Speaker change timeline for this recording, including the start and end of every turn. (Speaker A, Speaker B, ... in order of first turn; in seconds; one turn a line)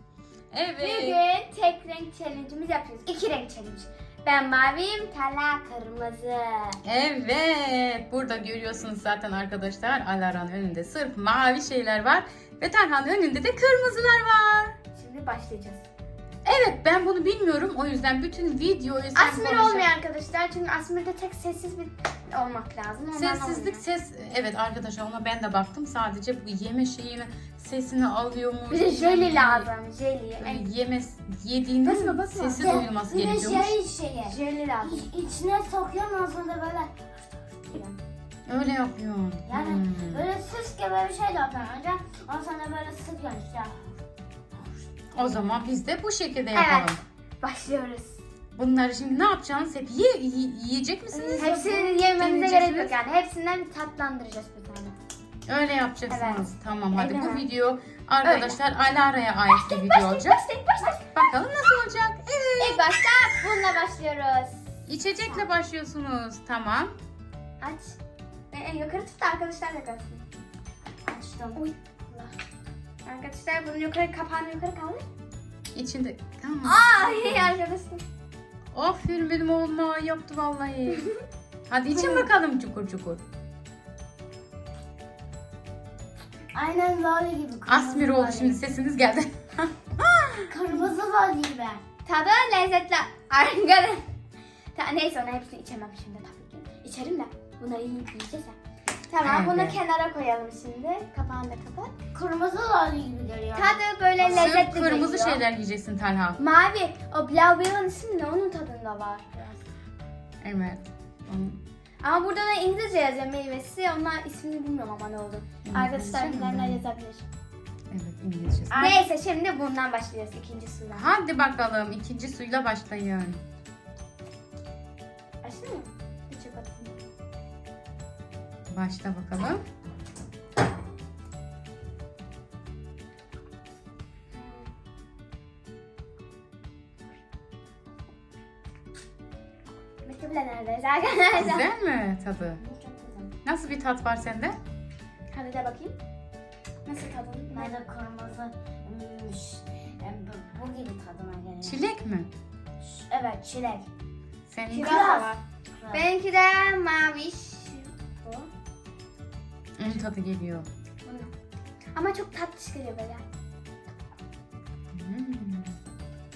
Speaker A: 0.5-1.2
Speaker B: 0.8-6.8
Speaker A: 6.8-14.8
Speaker B: 14.9-15.8
Speaker A: 16.4-19.9
Speaker B: 19.1-23.8
Speaker A: 23.1-29.7
Speaker B: 28.7-30.7
Speaker A: 30.4-33.8
Speaker B: 31.8-32.8
Speaker C: 32.6-37.9
Speaker B: 34.2-35.1
Speaker A: 38.5-40.3
Speaker C: 39.5-43.9
Speaker A: 45.1-47.0
Speaker B: 46.5-48.2
Speaker A: 48.5-52.9
Speaker B: 51.3-54.9
Speaker C: 51.4-52.0
Speaker A: 55.5-60.4
Speaker B: 56.1-57.5
Speaker B: 58.2-58.6
Speaker B: 59.5-61.1
Speaker A: 61.1-63.7
Speaker B: 62.6-64.6
Speaker A: 64.9-66.9
Speaker B: 67.6-68.0
Speaker B: 68.5-70.2
Speaker C: 71.1-71.6
Speaker B: 71.5-72.3
Speaker B: 73.0-75.0
Speaker A: 75.7-77.5
Speaker B: 76.6-78.0
Speaker A: 78.7-81.1
Speaker A: 81.7-83.2
Speaker B: 81.9-82.2
Speaker C: 86.5-88.6
Speaker A: 87.7-90.4
Speaker C: 90.5-91.8
Speaker B: 92.0-94.0
Speaker B: 94.7-98.6
Speaker B: 99.1-101.9
Speaker A: 99.2-99.8
Speaker C: 102.1-104.5
Speaker B: 103.5-105.4
Speaker A: 104.2-106.4
Speaker B: 106.4-109.6
Speaker A: 110.4-111.6
Speaker B: 112.0-117.2
Speaker A: 115.7-116.8
Speaker A: 117.9-119.0
Speaker C: 118.7-119.0
Speaker B: 118.7-121.1
Speaker A: 120.9-123.4
Speaker B: 125.4-127.0
Speaker A: 128.7-129.6
Speaker B: 134.3-134.7
Speaker B: 140.0-141.7
Speaker A: 141.3-142.6
Speaker C: 142.6-143.3
Speaker A: 143.4-144.6
Speaker B: 145.3-145.9
Speaker B: 146.8-147.8
Speaker C: 147.5-151.8
Speaker A: 151.6-152.3
Speaker C: 152.8-153.9
Speaker A: 154.5-155.1
Speaker B: 154.7-158.5
Speaker C: 154.8-156.0
Speaker A: 159.8-160.7
Speaker B: 161.0-161.3
Speaker B: 161.9-163.2
Speaker A: 164.9-165.8